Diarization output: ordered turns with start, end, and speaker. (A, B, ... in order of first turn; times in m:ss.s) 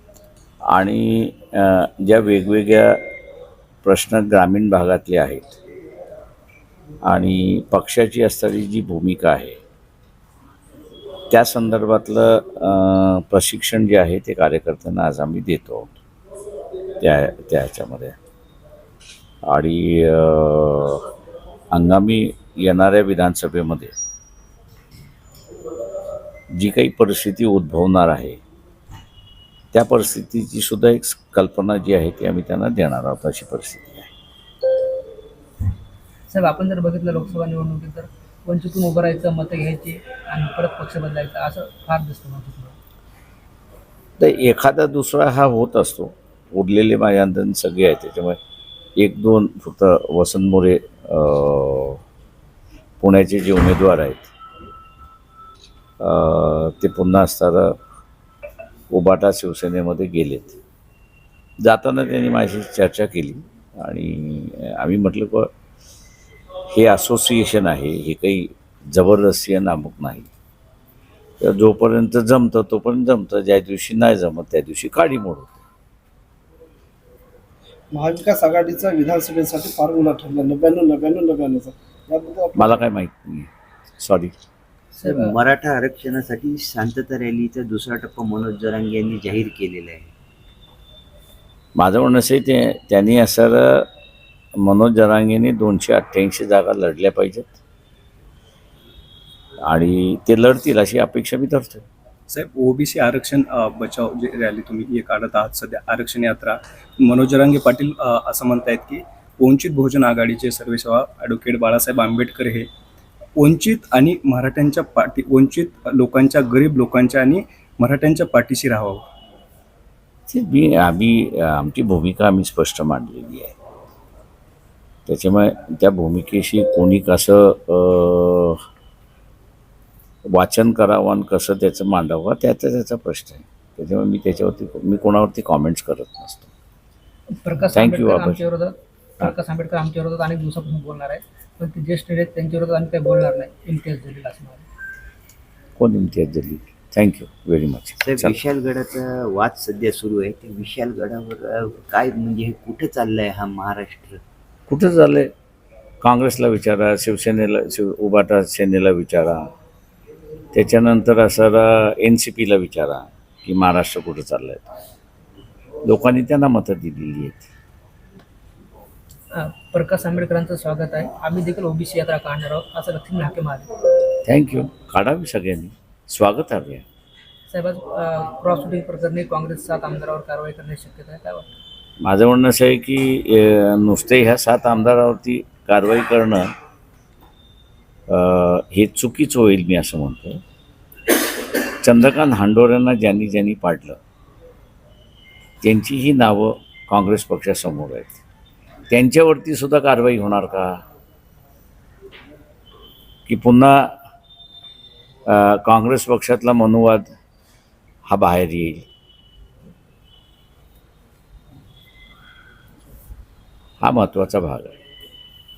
0:00.7-0:03.0 A
0:03.8-0:05.6 A
0:07.0-0:09.6 A
0:11.3-0:16.0 A
0:17.0-0:18.2 A
0:19.4-0:21.1 A
0:21.7-0:23.9 A
0:26.6-0:28.4 A
0:29.7-0:34.1 A
0:36.3-0:42.8 B
0:44.2-0:48.4 A
0:49.0-0:52.0 A
0:53.0-0:54.3 A
0:56.0-0:57.8 A
0:58.9-1:00.6 A
1:01.6-1:05.5 A
1:06.7-1:10.3 A
1:11.4-1:15.6 A
1:17.9-1:22.8 C
1:22.6-1:24.3 A
1:25.0-1:25.4 B
1:25.0-1:30.1 D
1:31.8-1:33.9 A
1:34.6-1:37.5 A
1:39.7-1:41.8 A
1:42.3-1:52.7 E
1:53.4-1:59.0 E
2:00.3-2:03.5 A
2:05.0-2:08.6 A
2:10.3-2:16.5 A
2:17.4-2:24.6 B
2:17.7-2:18.4 A
2:25.8-2:28.4 A
2:28.0-2:34.2 D
2:34.7-2:35.3 A
2:36.0-2:39.4 A
2:40.5-2:44.7 A
2:45.8-2:47.5 A
2:49.3-2:53.7 B
2:54.2-2:56.8 A
2:57.5-3:01.5 B
3:02.0-3:06.5 A
3:08.1-3:10.4 A
3:11.8-3:14.0 A
3:15.6-3:18.2 A
3:18.9-3:20.8 A
3:23.3-3:24.0 A
3:25.3-3:27.1 A
3:28.1-3:28.8 A
3:33.8-3:34.7 A